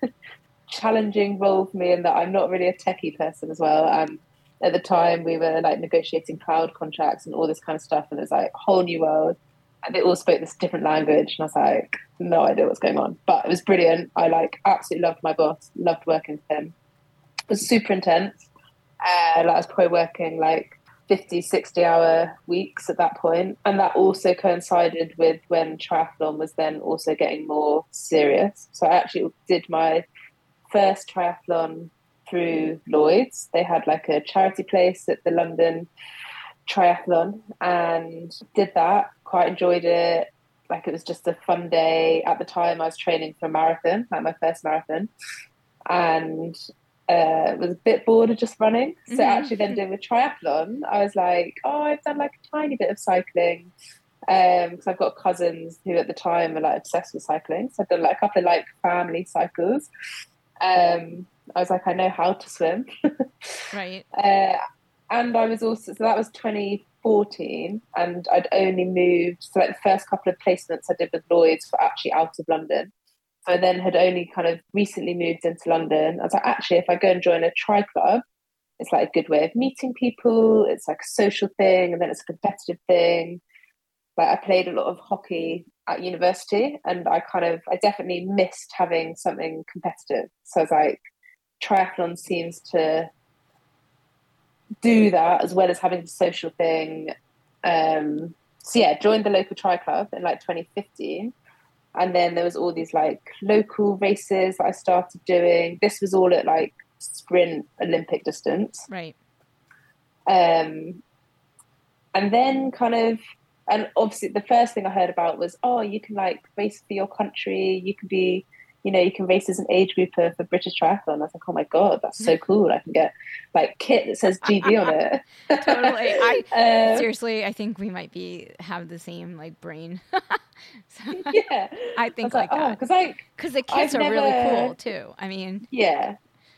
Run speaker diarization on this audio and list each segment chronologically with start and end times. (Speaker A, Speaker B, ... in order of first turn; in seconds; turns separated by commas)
Speaker A: 0.7-16.7, Speaker A: 17.5-18.4, Speaker A: 19.0-30.1, Speaker A: 30.7-35.9, Speaker A: 36.7-45.1, Speaker A: 45.9-46.6, Speaker A: 47.1-53.7, Speaker B: 49.1-49.7, Speaker A: 54.3-59.9, Speaker A: 60.6-62.9, Speaker B: 63.7-64.1, Speaker A: 64.1-64.6, Speaker A: 65.1-72.9, Speaker A: 73.5-78.2, Speaker A: 78.8-83.4, Speaker A: 84.2-91.0, Speaker A: 91.6-93.1, Speaker A: 94.8-97.1, Speaker A: 97.7-101.3, Speaker A: 102.0-108.9, Speaker B: 108.9-109.2, Speaker A: 110.3-111.0, Speaker A: 112.2-127.1, Speaker B: 124.6-124.9, Speaker B: 125.5-131.3, Speaker A: 131.1-134.8, Speaker B: 132.0-132.8, Speaker B: 133.3-135.7, Speaker A: 135.7-136.2